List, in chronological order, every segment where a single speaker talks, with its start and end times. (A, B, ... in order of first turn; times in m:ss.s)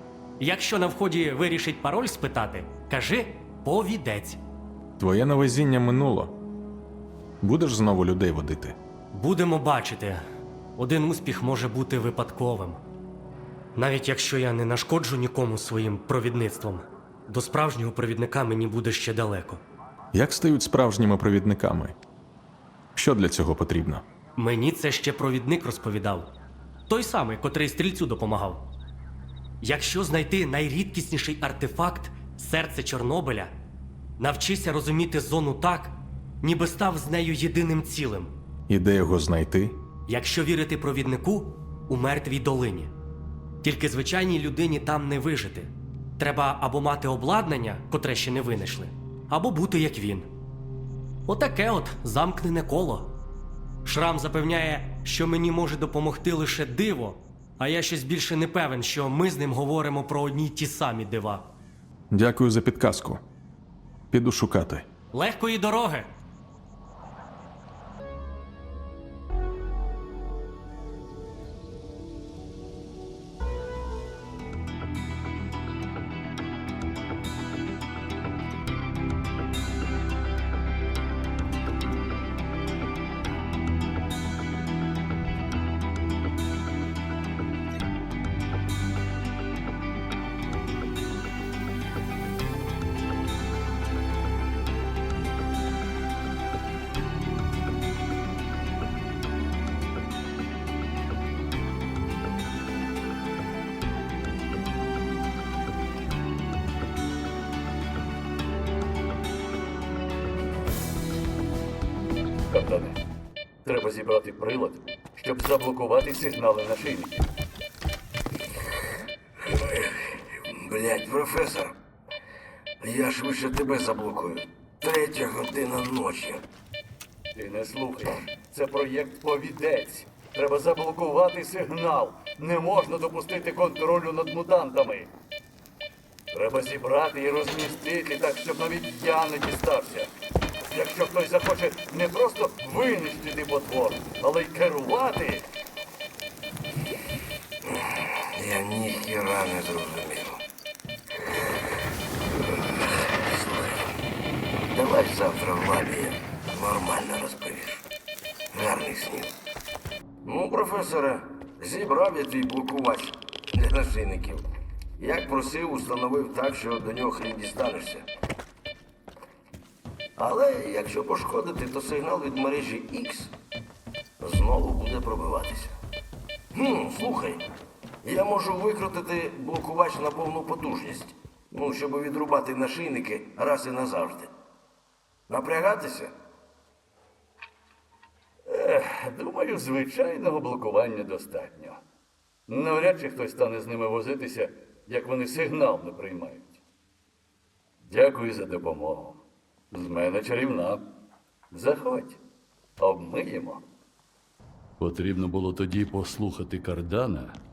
0:00.4-0:04.4 A
0:05.0-0:06.3 B
0:07.4-0:08.8 B
0:09.1-0:10.2 A
0:10.8-0:12.8 A
0:13.7-0:19.6 A
0:20.1-0:21.9 B
0:23.0-0:24.0 B
0:24.4-0:26.3 A
0:26.9-0:28.6 A
0:29.6-0:33.5 A
0:34.2-0:38.3 A
0:38.7-0:39.8 B
0:40.1-0:42.9 A
0:43.6-0:50.3 A
0:51.2-0:53.1 A
0:53.8-1:01.5 A
1:02.1-1:03.2 B
1:04.1-1:04.8 B
1:05.1-1:06.1 A
1:52.5-1:53.0 C
1:53.6-1:57.2 C
1:59.4-2:01.7 D
2:02.8-2:06.4 D
2:07.3-2:15.1 C
2:16.3-2:20.1 C
2:20.7-2:25.4 C
2:27.7-2:30.4 D
2:32.5-2:33.9 D
2:34.7-2:37.8 D
2:38.5-2:39.3 D
2:40.2-2:44.4 D
2:45.0-2:48.0 D
2:50.2-2:53.3 D
2:54.2-2:55.7 D
2:56.5-2:57.4 D
2:58.0-3:04.3 D
3:05.3-3:06.1 D
3:08.4-3:11.8 C
3:12.5-3:16.6 C
3:17.8-3:19.2 C
3:19.7-3:20.8 C
3:21.5-3:22.2 C
3:22.8-3:23.6 C
3:24.8-3:27.4 E